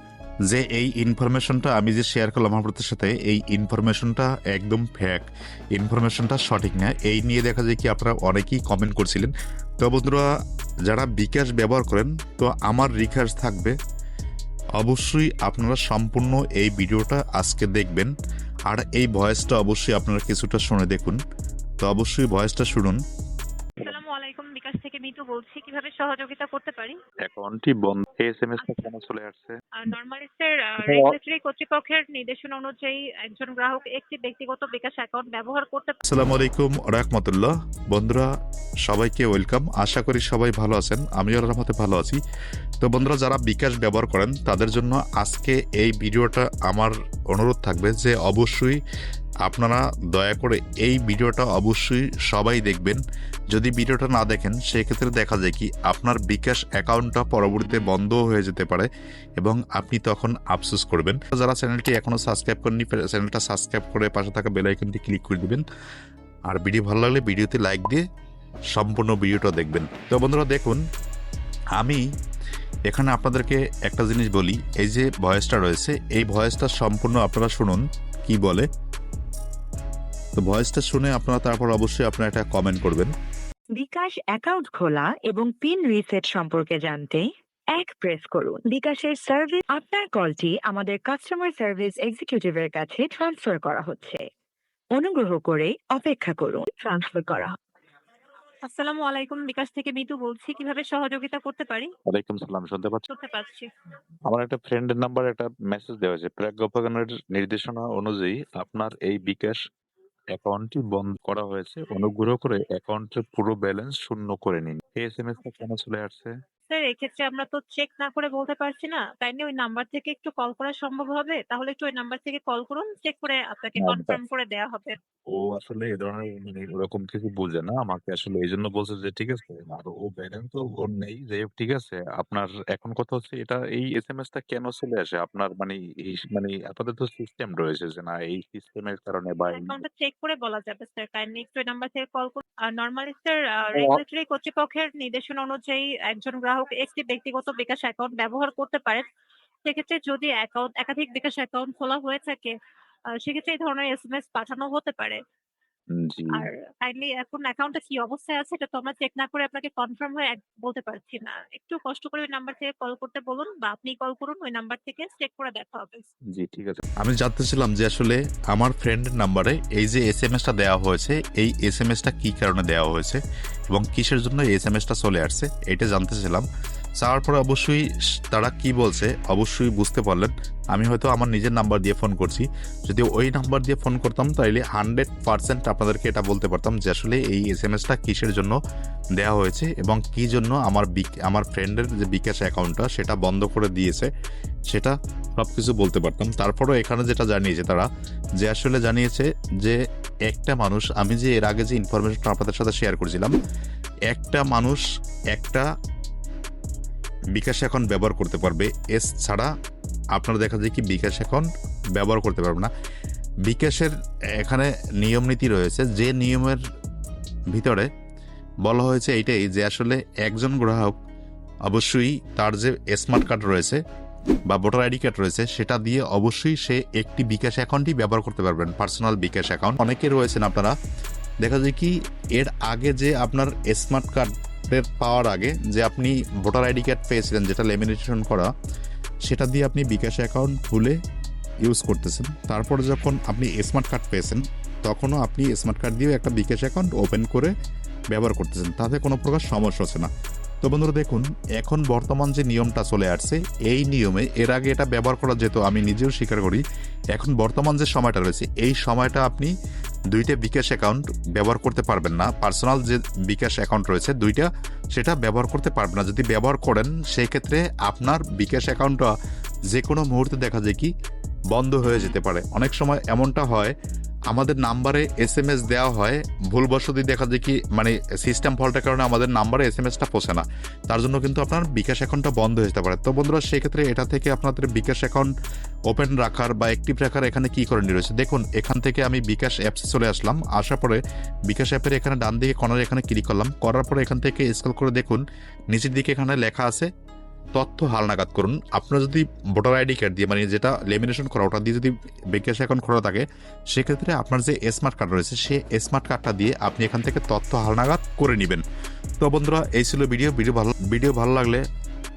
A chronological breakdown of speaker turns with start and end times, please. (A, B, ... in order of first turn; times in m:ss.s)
0:00.5-0:05.2 A
0:05.8-0:10.2 A
0:10.9-0:13.7 A
0:14.8-0:18.1 A
0:18.7-0:21.2 A
0:21.8-0:23.0 A
0:23.8-0:27.0 B
0:27.3-0:29.5 A
0:28.6-0:29.2 C
0:28.6-0:28.9 B
0:29.8-0:36.0 B
0:36.0-0:38.3 A
0:38.8-0:42.2 A
0:42.8-0:48.8 A
0:49.4-0:53.0 A
0:53.5-0:58.9 A
0:59.4-1:05.6 A
1:06.5-1:08.0 A
1:08.7-1:10.8 A
1:11.8-1:12.0 A
1:12.9-1:18.7 A
1:20.4-1:23.1 A
1:23.7-1:27.2 D
1:27.8-1:34.2 D
1:34.9-1:37.5 D
1:38.6-1:41.9 B
1:42.1-1:42.9 C
1:42.2-1:42.7 A
1:43.1-1:43.7 B
1:44.3-1:49.5 C
1:44.4-1:46.8 A
1:48.7-1:49.5 A
1:50.4-1:56.0 C
1:50.5-1:51.8 A
1:53.0-1:56.2 A
1:56.7-2:05.0 B
2:05.5-2:19.8 C
2:19.5-2:29.0 B
2:29.6-2:32.5 B
2:33.2-2:35.2 B
2:36.1-2:36.4 C
2:36.3-2:46.1 B
2:46.4-2:53.2 A
2:53.7-2:56.4 A
2:57.0-3:08.6 A
3:09.2-3:14.1 A
3:14.7-3:17.9 A
3:18.4-3:23.3 A
3:24.1-3:24.8 A
3:25.3-3:25.6 A
3:27.3-3:29.5 A
3:30.2-3:32.7 A
3:33.5-3:36.6 A
3:37.5-3:37.9 A
3:38.6-3:41.0 A
3:41.7-3:43.8 A
3:44.5-3:50.7 A
3:51.4-3:58.5 A
3:59.3-4:01.0 A
4:01.6-4:07.5 A
4:08.1-4:10.1 A
4:10.6-4:16.6 A
4:17.1-4:19.5 A
4:20.1-4:29.1 A
4:29.7-4:30.9 A
4:31.5-4:33.7 A
4:34.3-4:45.3 A
4:45.9-4:56.9 A
4:57.6-5:08.6 A
5:09.2-5:11.6 A